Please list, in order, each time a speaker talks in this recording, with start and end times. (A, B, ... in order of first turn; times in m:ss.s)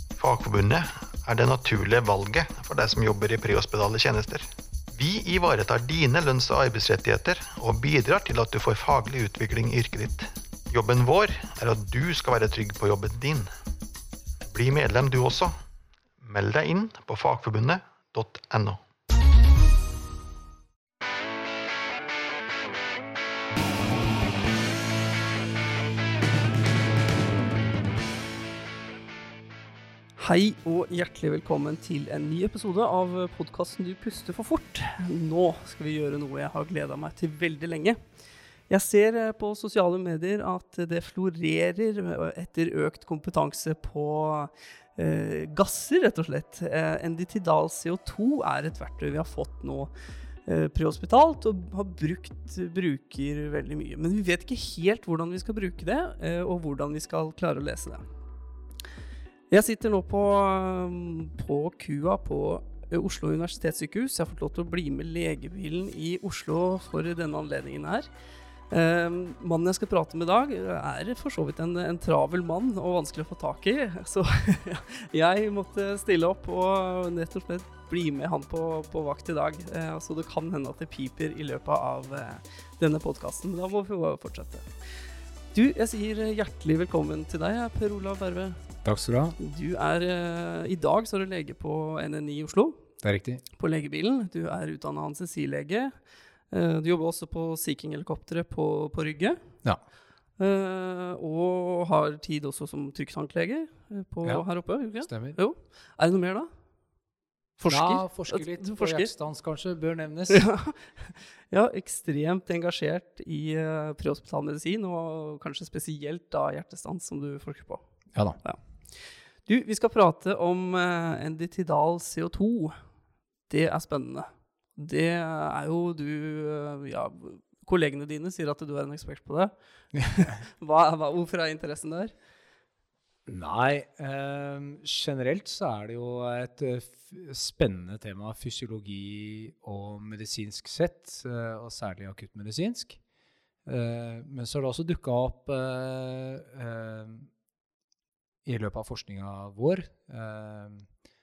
0:00.2-0:13.5 A
0:14.5-0:15.6 A
0:16.2-0:18.8 A
0:30.2-0:38.0 B
0:38.7-0:49.9 B
0:50.4-0:58.0 B
0:59.5-1:08.1 B
1:08.7-1:24.7 B
1:25.5-1:28.6 B
1:28.8-1:29.4 C
1:29.4-1:32.8 B
1:33.0-1:33.4 C
1:33.6-1:36.0 B
1:36.5-1:39.4 B
1:40.4-1:46.5 B
1:45.0-1:45.4 C
1:47.6-1:49.1 B
1:47.7-1:50.5 C
1:50.3-1:57.8 B
1:58.1-1:58.4 C
1:59.4-2:02.8 B
2:03.5-2:12.1 B
2:13.3-2:23.0 C
2:23.7-2:27.3 C
2:28.4-2:30.9 C